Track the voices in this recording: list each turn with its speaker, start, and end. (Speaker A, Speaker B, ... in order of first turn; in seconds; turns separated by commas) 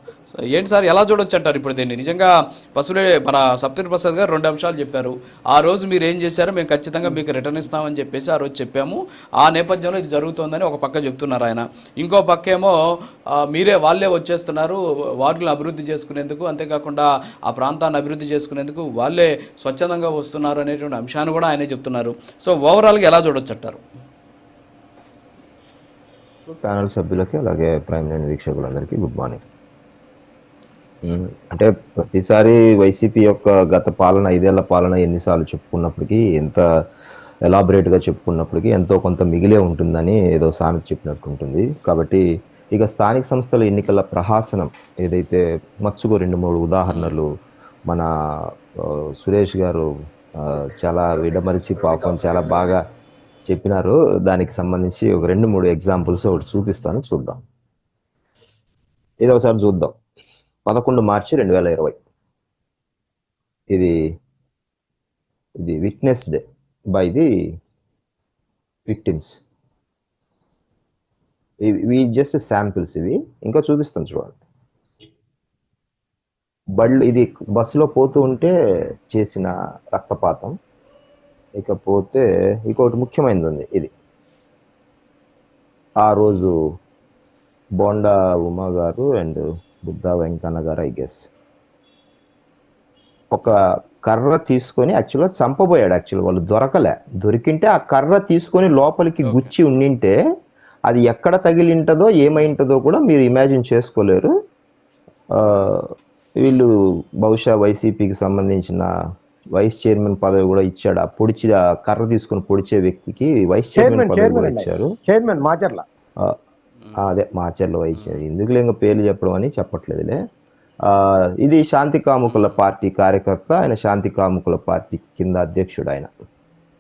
Speaker A: 0.3-12.8, Speaker A: 13.3-23.8, Speaker B: 26.5-29.4, Speaker B: 31.0-36.6, Speaker B: 37.5-47.3, Speaker A: 46.9-47.2, Speaker B: 48.8-49.9, Speaker B: 50.4-52.8, Speaker B: 53.5-57.4, Speaker B: 59.2-60.0, Speaker B: 60.7-62.0, Speaker B: 63.7-64.0, Speaker B: 65.6-66.4, Speaker B: 66.9-67.3, Speaker B: 68.9-69.4, Speaker B: 71.6-74.4, Speaker B: 76.8-78.5, Speaker B: 79.1-80.5, Speaker B: 81.6-83.9, Speaker B: 86.0-86.7, Speaker B: 87.8-91.3, Speaker B: 93.3-100.2, Speaker A: 99.2-99.5, Speaker B: 100.9-104.3, Speaker B: 105.3-108.9, Speaker B: 109.6-114.9, Speaker C: 113.8-115.8, Speaker B: 117.0-120.2, Speaker A: 118.0-118.2, Speaker B: 120.9-126.1, Speaker A: 122.3-122.5